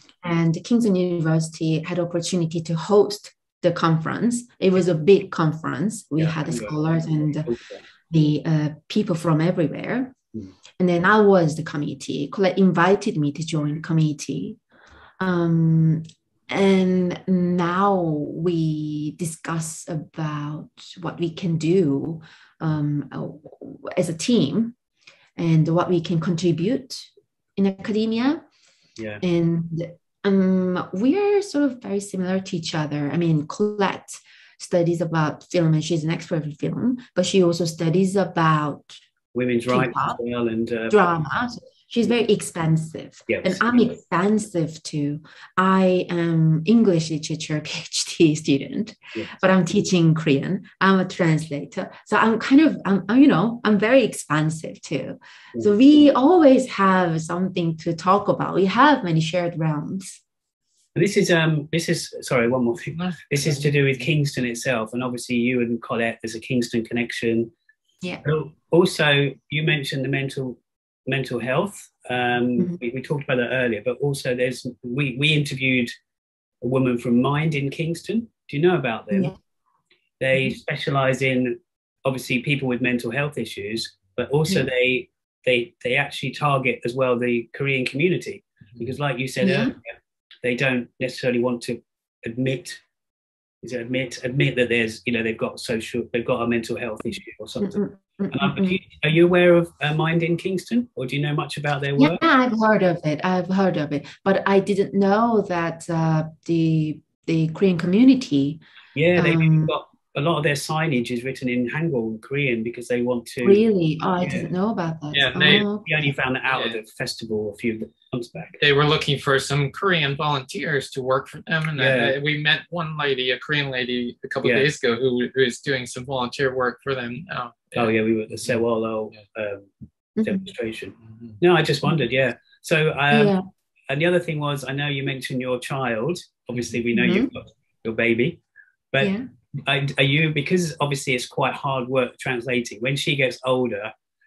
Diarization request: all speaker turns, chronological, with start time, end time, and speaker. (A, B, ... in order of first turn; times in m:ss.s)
0:00.2-0:07.5 A
0:06.2-0:06.8 B
0:07.4-0:07.8 B
0:08.1-0:10.2 A
0:10.8-0:14.6 A
0:15.2-0:24.8 A
0:25.4-0:28.4 A
0:29.0-0:29.2 B
0:29.2-0:39.0 A
0:39.3-0:41.0 B
0:39.7-0:40.2 A
0:40.9-1:00.2 A
0:43.3-0:43.6 B
1:01.0-1:07.5 B
1:02.9-1:03.7 C
1:08.2-1:15.9 B
1:16.6-1:19.3 B
1:20.2-1:29.8 B
1:29.4-1:29.8 A
1:30.4-1:32.8 B
1:33.6-1:37.8 B
1:37.6-1:38.8 A
1:38.3-1:42.2 B
1:42.0-1:48.6 A
1:49.0-1:53.6 B
1:49.2-1:49.8 A
1:53.4-1:55.9 A
1:54.2-1:54.5 B
1:55.1-1:55.7 C
1:55.4-1:58.6 B
1:56.5-1:56.8 C
1:58.6-2:08.6 C
2:01.8-2:02.2 B
2:04.4-2:04.7 B
2:07.8-2:09.7 B
2:10.2-2:10.5 A
2:10.2-2:13.4 B
2:11.1-2:11.4 C
2:13.1-2:13.4 A
2:13.9-2:18.4 B
2:16.9-2:17.3 A
2:18.9-2:23.9 B
2:19.0-2:19.3 A